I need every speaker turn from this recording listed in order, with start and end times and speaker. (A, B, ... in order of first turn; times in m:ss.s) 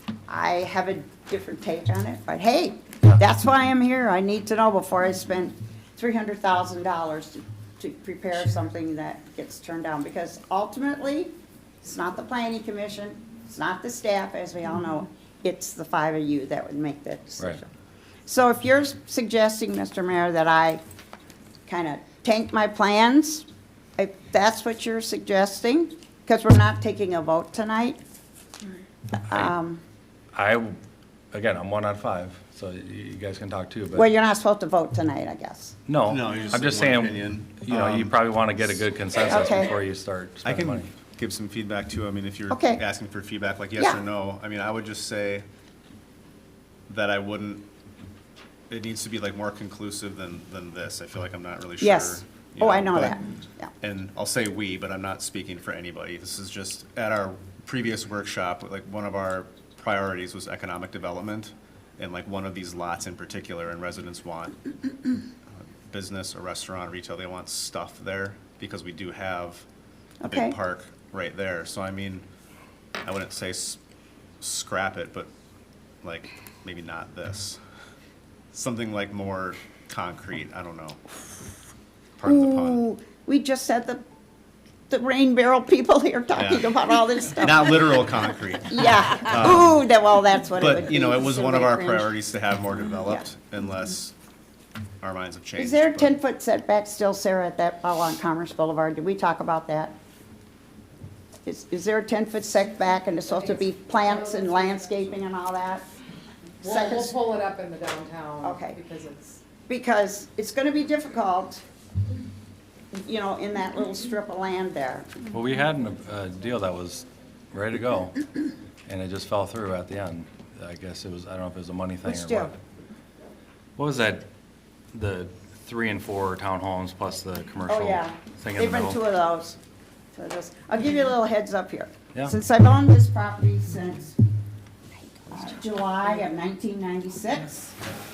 0:00.3-0:17.7 A
0:18.3-0:20.8 A
0:21.7-0:23.5 A
0:24.0-0:28.0 A
0:29.2-0:29.8 A
0:30.4-0:30.8 B
0:31.3-0:34.1 B
0:34.0-0:35.8 A
0:35.9-0:40.9 B
0:36.1-0:38.1 C
0:39.3-0:39.7 A
0:40.4-0:45.4 C
0:42.5-0:42.8 A
0:46.9-0:47.6 C
0:48.7-0:53.2 C
0:51.8-0:53.7 A
0:53.8-1:04.6 C
1:05.9-1:09.6 C
1:10.2-1:10.6 A
1:10.2-1:12.2 C
1:13.0-1:13.8 C
1:14.4-1:15.3 C
1:16.0-1:17.6 C
1:18.5-1:21.2 C
1:22.2-1:22.8 C
1:22.2-1:24.0 A
1:24.9-1:28.1 A
1:26.4-1:26.8 C
1:27.4-1:29.8 C
1:28.6-1:32.1 A
1:30.6-1:34.1 C
1:35.0-1:36.2 C
1:35.6-1:40.0 A
1:41.5-1:45.8 A
1:43.4-1:45.1 D
1:46.6-1:49.4 D
1:46.6-1:47.1 A
1:48.4-1:48.8 A
1:49.7-1:51.6 A
1:52.9-1:55.1 A
1:55.3-1:58.2 B
1:58.9-2:02.6 B
2:02.0-2:02.5 A
2:03.8-2:04.3 B
2:04.9-2:09.0 B
2:07.7-2:09.6 A
2:10.1-2:14.2 A
2:15.3-2:17.8 A